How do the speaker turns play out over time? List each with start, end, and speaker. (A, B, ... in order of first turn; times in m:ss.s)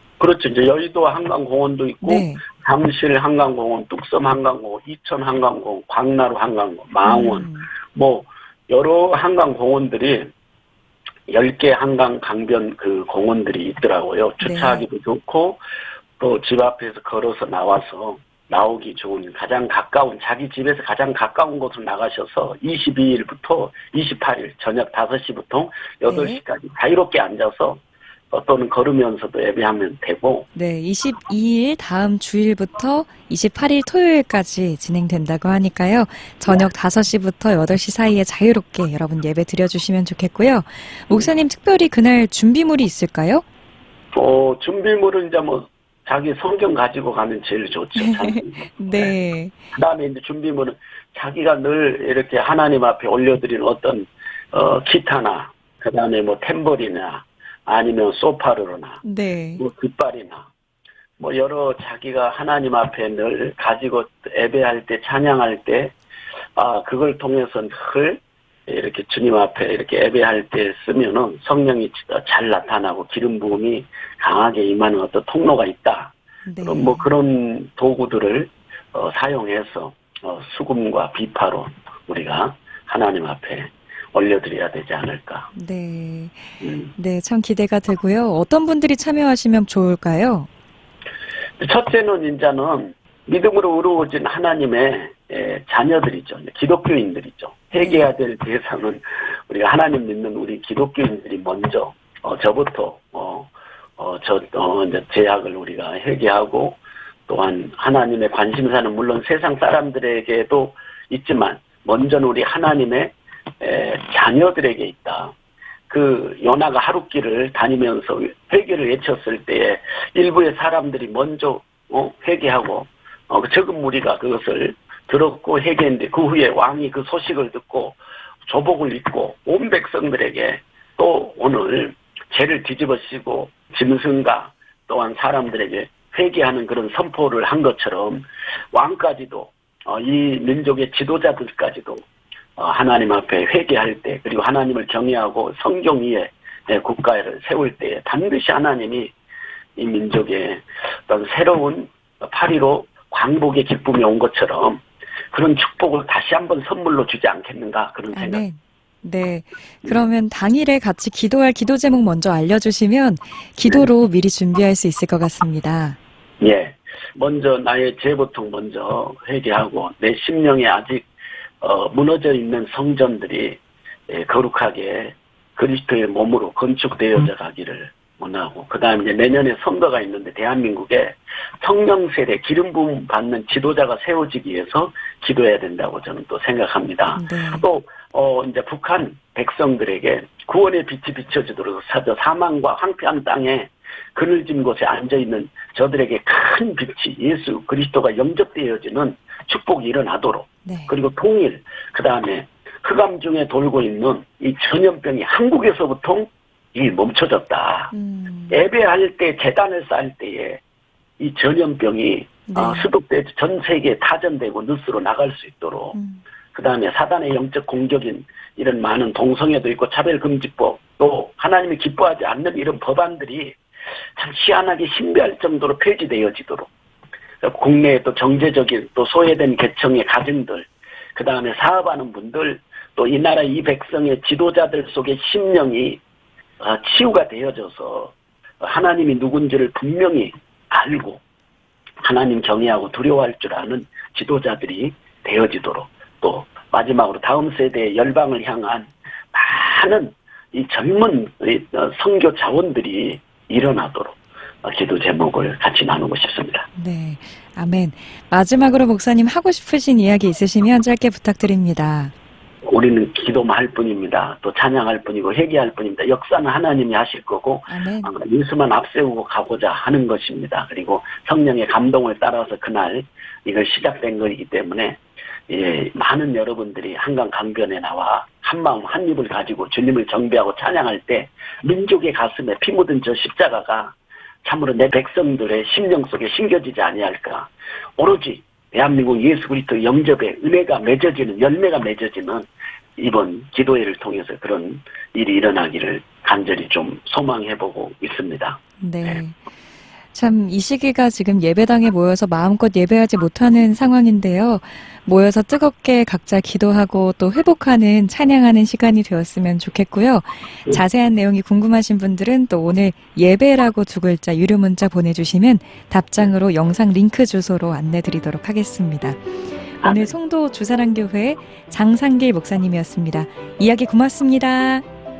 0:00.2-0:10.3 A
0:02.0-0:02.4 B
0:07.0-0:07.7 B
0:11.3-0:15.6 A
0:14.4-0:14.8 B
0:16.2-0:30.4 A
0:26.1-0:26.4 B
0:30.5-0:43.4 B
0:44.1-0:49.2 A
0:48.0-0:49.6 B
0:49.7-0:59.0 A
0:59.0-0:59.6 B
0:59.6-1:00.5 A
1:01.2-1:05.9 A
1:06.5-1:25.5 A
1:16.4-1:17.1 B
1:25.5-1:30.5 B
1:26.6-1:26.9 A
1:31.6-1:55.3 A
1:37.8-1:38.1 B
1:55.9-2:22.0 A
2:22.6-2:29.1 A
2:29.8-2:38.4 A
2:38.1-2:46.0 B
2:46.4-2:51.1 A
2:51.6-3:27.9 A
3:07.1-3:07.6 B
3:20.6-3:20.9 B
3:27.9-3:28.6 B
3:28.5-3:30.6 A
3:31.2-3:36.0 A
3:32.5-3:32.9 B
3:35.9-3:36.2 B
3:36.5-3:43.6 A
3:44.2-3:46.7 A
3:47.4-3:56.0 A
3:56.6-4:01.2 A
4:02.0-4:16.6 A
4:16.8-4:22.1 B
4:22.6-4:59.2 A
4:27.7-4:28.1 B
4:58.8-4:59.4 B
5:00.1-5:19.2 B
5:19.8-5:24.8 B
5:19.8-5:20.2 A